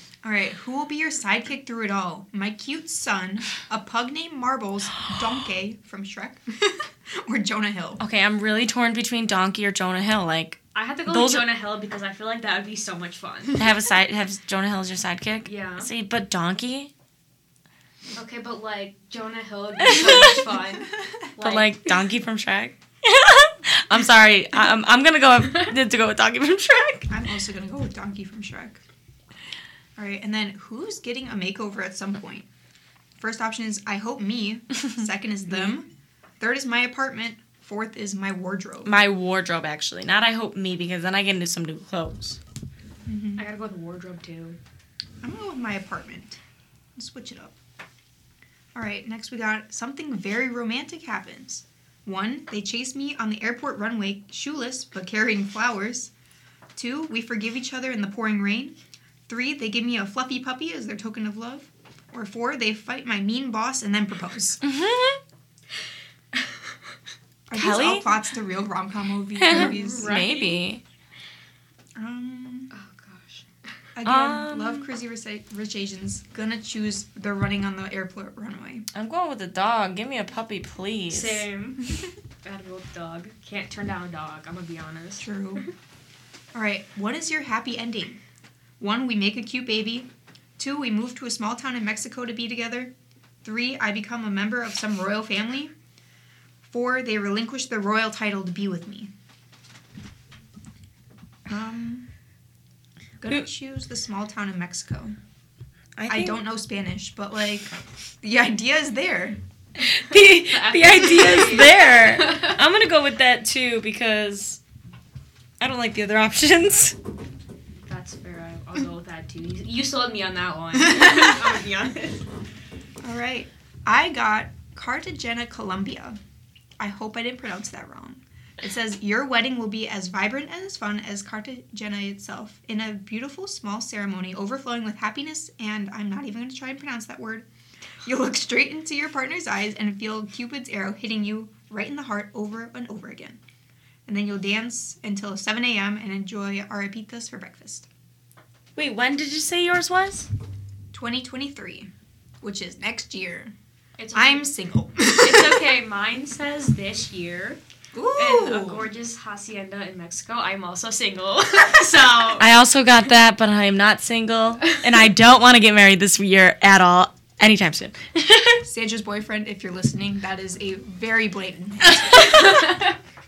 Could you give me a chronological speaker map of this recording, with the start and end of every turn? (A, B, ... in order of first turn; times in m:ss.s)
0:00.2-0:08.0 A
0:08.0-0:11.5 B
0:10.7-0:13.6 C
0:13.6-0:16.9 B
0:15.4-0:15.9 C
0:18.1-0:22.0 C
0:19.9-0:20.4 B
0:20.0-0:21.3 A
0:21.4-0:27.1 B
0:25.4-0:25.7 C
0:27.1-0:28.8 A
0:30.0-0:32.5 A
0:33.2-0:35.9 A
0:36.4-0:38.9 A
0:38.8-0:42.4 B
0:43.1-0:43.4 A
0:43.4-0:44.6 C
0:45.2-0:46.4 A
0:47.0-0:47.5 A
0:48.7-0:56.1 A
0:56.8-0:58.7 A
0:59.3-1:04.6 A
1:04.6-1:05.2 B
1:07.5-1:10.2 A
1:07.5-1:08.1 B
1:09.4-1:10.8 B
1:09.5-1:10.6 C
1:12.0-1:12.7 A
1:12.7-1:13.4 C
1:13.9-1:18.8 A
1:14.0-1:14.9 B
1:18.9-1:21.4 B
1:21.1-1:25.7 C
1:25.2-1:25.6 A
1:26.5-1:28.2 A
1:28.8-1:32.9 A
1:33.4-1:35.7 A
1:36.7-1:39.1 A
1:41.5-1:42.1 A
1:43.2-1:45.1 A
1:46.0-1:46.4 B
1:46.1-1:49.4 A
1:49.8-1:54.6 B
1:50.4-1:52.6 C
1:55.6-1:56.9 B
1:57.8-2:02.2 C
2:00.8-2:01.5 A
2:03.0-2:06.2 A
2:06.8-2:17.4 A
2:18.0-2:23.4 A
2:24.1-2:27.9 A
2:28.8-2:30.3 B
2:30.9-2:31.9 A
2:32.4-2:33.5 A
2:34.0-2:34.5 C
2:34.1-2:35.6 A
2:35.1-2:37.6 C
2:37.9-2:38.9 A
2:38.1-2:42.5 C
2:42.4-2:48.6 B
2:48.6-2:52.3 A
2:51.9-2:52.8 B
2:52.4-2:52.9 C